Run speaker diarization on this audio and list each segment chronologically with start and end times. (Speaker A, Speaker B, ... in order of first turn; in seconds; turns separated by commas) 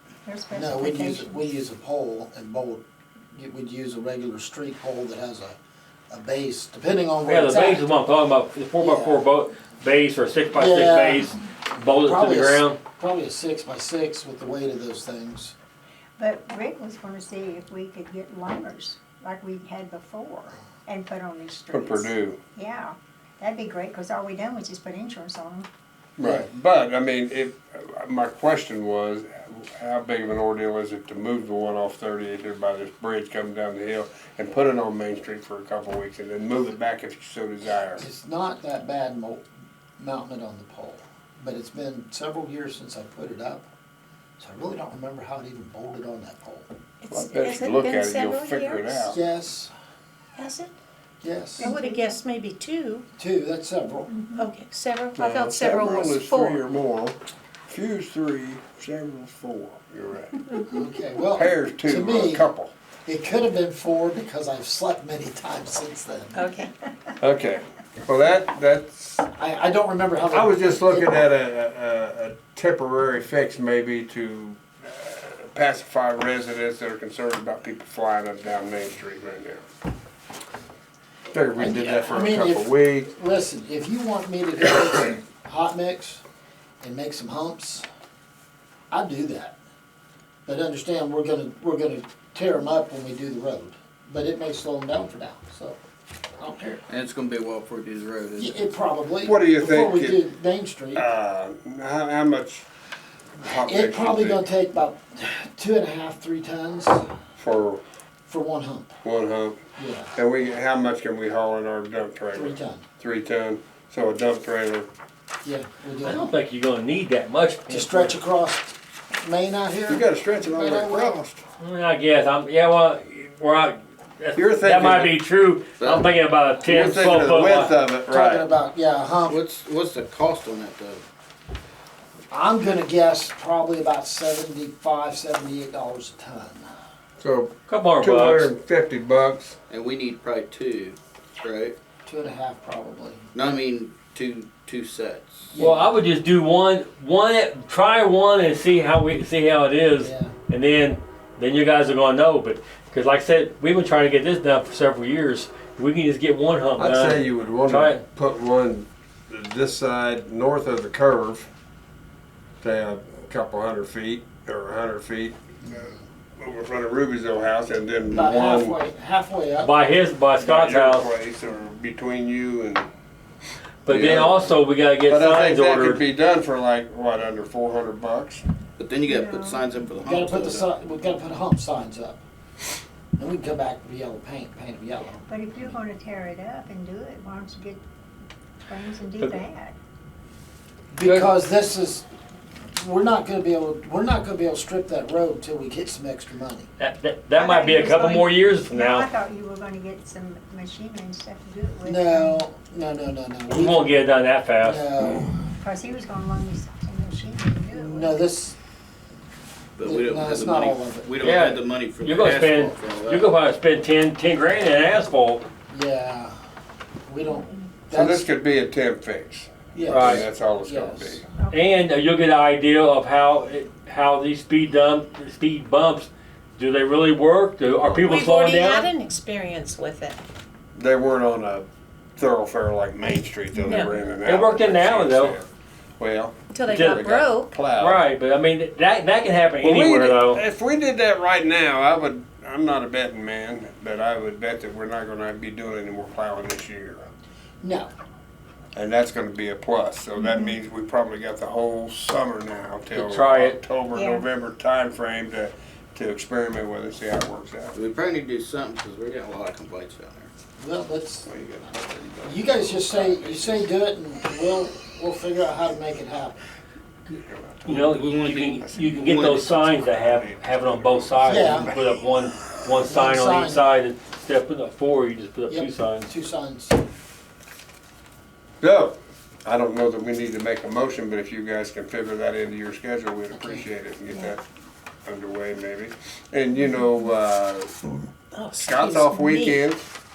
Speaker A: 0.2-1.4, Speaker B: 0.5-2.8, Speaker B: 3.3-5.5, Speaker B: 6.1-7.9, Speaker C: 7.2-12.8, Speaker B: 8.8-9.2, Speaker B: 10.5-15.5, Speaker A: 16.2-25.7, Speaker D: 21.7-22.4, Speaker D: 26.2-38.0, Speaker B: 26.2-26.4, Speaker B: 37.9-39.4, Speaker B: 40.0-43.7, Speaker B: 44.4-46.7, Speaker E: 47.0-49.1, Speaker D: 47.1-49.2, Speaker B: 49.0-49.7, Speaker E: 50.4-50.7, Speaker B: 51.2-51.7, Speaker A: 51.6-52.1, Speaker E: 51.6-53.0, Speaker B: 53.2-54.1, Speaker A: 54.1-54.5, Speaker E: 54.4-56.6, Speaker D: 55.1-57.1, Speaker D: 57.7-60.4, Speaker B: 60.7-62.5, Speaker D: 61.4-62.7, Speaker B: 63.0-66.4, Speaker E: 66.3-66.7, Speaker D: 67.2-69.2, Speaker B: 69.3-71.2, Speaker D: 70.3-79.6, Speaker D: 81.3-83.1, Speaker B: 81.5-86.2, Speaker B: 86.8-87.8, Speaker B: 88.9-89.5, Speaker B: 90.5-95.8, Speaker B: 96.4-96.8, Speaker F: 96.9-98.6, Speaker B: 98.4-101.0, Speaker D: 99.2-100.2, Speaker D: 100.9-102.7, Speaker D: 103.3-104.4, Speaker B: 103.4-107.1, Speaker D: 107.3-107.8, Speaker B: 108.3-109.0, Speaker D: 109.0-109.6, Speaker B: 109.8-110.1, Speaker D: 110.1-114.9, Speaker B: 112.3-112.8, Speaker B: 115.4-116.3, Speaker C: 116.0-118.1, Speaker B: 117.7-121.2, Speaker D: 119.9-121.4, Speaker C: 121.6-127.7, Speaker D: 124.3-125.2, Speaker F: 125.8-126.1, Speaker D: 126.6-128.5, Speaker B: 128.1-129.4, Speaker F: 129.2-131.0, Speaker B: 132.3-136.7, Speaker D: 137.2-139.6, Speaker C: 137.7-138.5, Speaker F: 139.7-141.7, Speaker B: 142.0-143.3, Speaker F: 143.3-145.6, Speaker B: 145.5-145.9, Speaker C: 145.6-158.0, Speaker B: 150.0-150.3, Speaker D: 156.8-161.5, Speaker D: 162.6-168.8, Speaker B: 168.1-169.7, Speaker C: 169.6-171.1, Speaker D: 170.4-172.9, Speaker C: 173.8-176.0, Speaker F: 173.8-174.6, Speaker D: 173.9-174.4, Speaker D: 175.0-178.4, Speaker F: 178.8-180.7, Speaker A: 179.1-179.6, Speaker B: 180.0-182.2, Speaker B: 183.2-185.7, Speaker A: 185.3-187.8, Speaker A: 188.6-189.8, Speaker B: 190.9-192.0, Speaker C: 191.0-191.3, Speaker B: 192.7-196.7, Speaker C: 196.8-199.1, Speaker A: 197.3-202.4, Speaker B: 201.8-204.0, Speaker C: 203.5-204.8, Speaker B: 204.6-205.4, Speaker A: 205.6-208.3, Speaker B: 207.7-208.6, Speaker F: 209.8-213.3, Speaker B: 209.8-211.1, Speaker C: 211.2-215.4, Speaker B: 215.7-216.3, Speaker B: 217.1-218.3, Speaker D: 217.9-221.2, Speaker B: 219.7-221.2, Speaker C: 219.9-220.2, Speaker A: 221.4-221.7, Speaker C: 221.5-228.9, Speaker D: 227.8-228.2, Speaker E: 228.0-230.2, Speaker D: 230.7-235.5, Speaker E: 233.5-233.9, Speaker C: 234.2-235.4, Speaker D: 236.0-238.0, Speaker E: 236.5-237.5, Speaker C: 236.7-237.1, Speaker C: 237.8-240.4, Speaker D: 239.6-247.1, Speaker B: 247.6-247.9, Speaker D: 248.7-257.8, Speaker A: 250.2-250.5, Speaker C: 252.9-253.6, Speaker A: 253.9-254.3, Speaker F: 257.7-260.3, Speaker B: 260.6-261.3, Speaker D: 261.2-262.6, Speaker F: 262.0-263.7, Speaker B: 262.2-266.4, Speaker D: 267.1-268.1, Speaker C: 267.6-276.1, Speaker F: 267.7-269.6, Speaker D: 268.6-272.0, Speaker B: 271.2-271.7, Speaker B: 272.8-273.7, Speaker B: 275.5-276.8, Speaker D: 278.6-278.9, Speaker D: 279.4-284.4, Speaker B: 283.3-283.6, Speaker D: 285.0-287.9, Speaker E: 288.3-289.6, Speaker D: 288.6-289.8